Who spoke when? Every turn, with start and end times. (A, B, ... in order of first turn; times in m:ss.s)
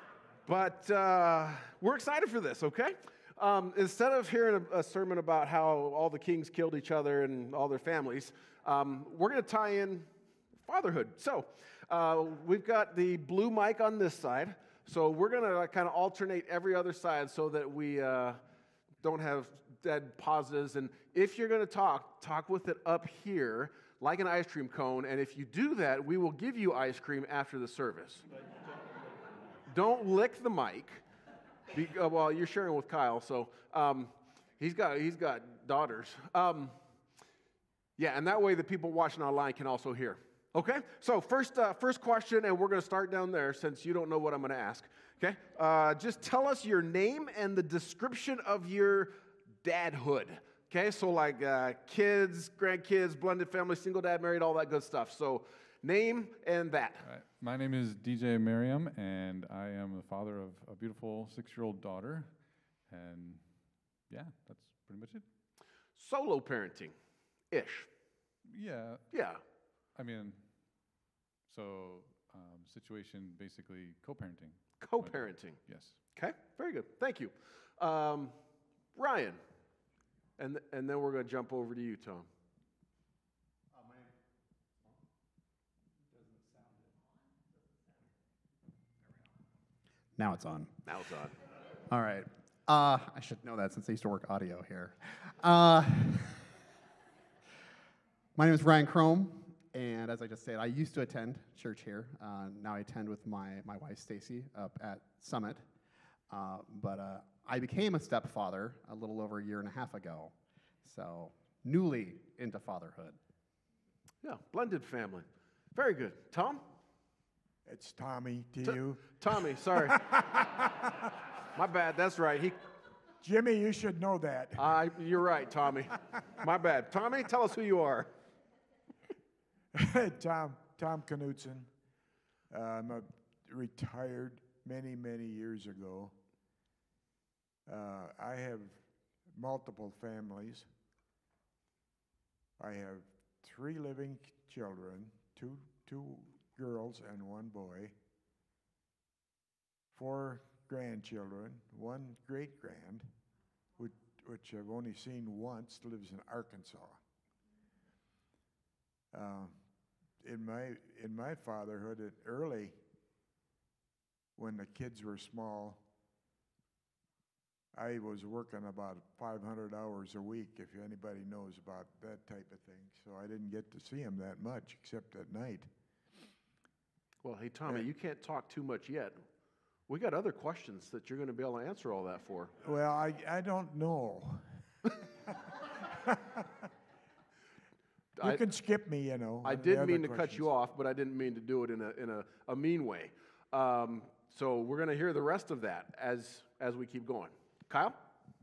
0:00.4-0:18.4 A
0:19.0-0:28.2 A
0:29.7-0:31.0 A
0:31.7-0:36.8 A
0:38.0-0:57.0 A
0:57.0-1:05.2 B
1:06.0-1:06.9 A
1:07.5-1:07.9 A
1:08.5-1:09.1 B
1:09.1-1:09.4 A
1:09.9-1:10.7 B
1:11.5-1:16.0 B
1:14.8-1:18.4 A
1:18.9-1:19.4 A
1:20.4-1:22.3 A
1:30.2-1:30.8 C
1:30.8-1:31.3 A
1:31.9-1:36.5 C
1:38.3-1:45.6 C
1:46.3-1:53.2 C
1:54.2-1:56.6 A
1:57.6-2:00.8 D
1:58.6-2:00.1 A
2:01.5-2:02.6 A
2:03.2-2:04.8 D
2:04.6-2:08.1 A
2:09.7-2:11.7 D
2:12.5-2:16.1 D
2:17.6-2:20.7 D
2:22.6-2:27.9 D
2:29.9-2:33.1 D
2:33.8-2:37.0 D
2:39.1-2:39.6 D
2:40.2-2:42.8 D
2:44.4-2:45.8 D
2:47.7-2:55.7 D
2:57.2-2:59.2 A
2:59.9-3:02.5 A
3:02.6-3:06.5 D
3:08.2-3:08.4 A
3:08.2-3:10.5 D
3:09.4-3:18.0 A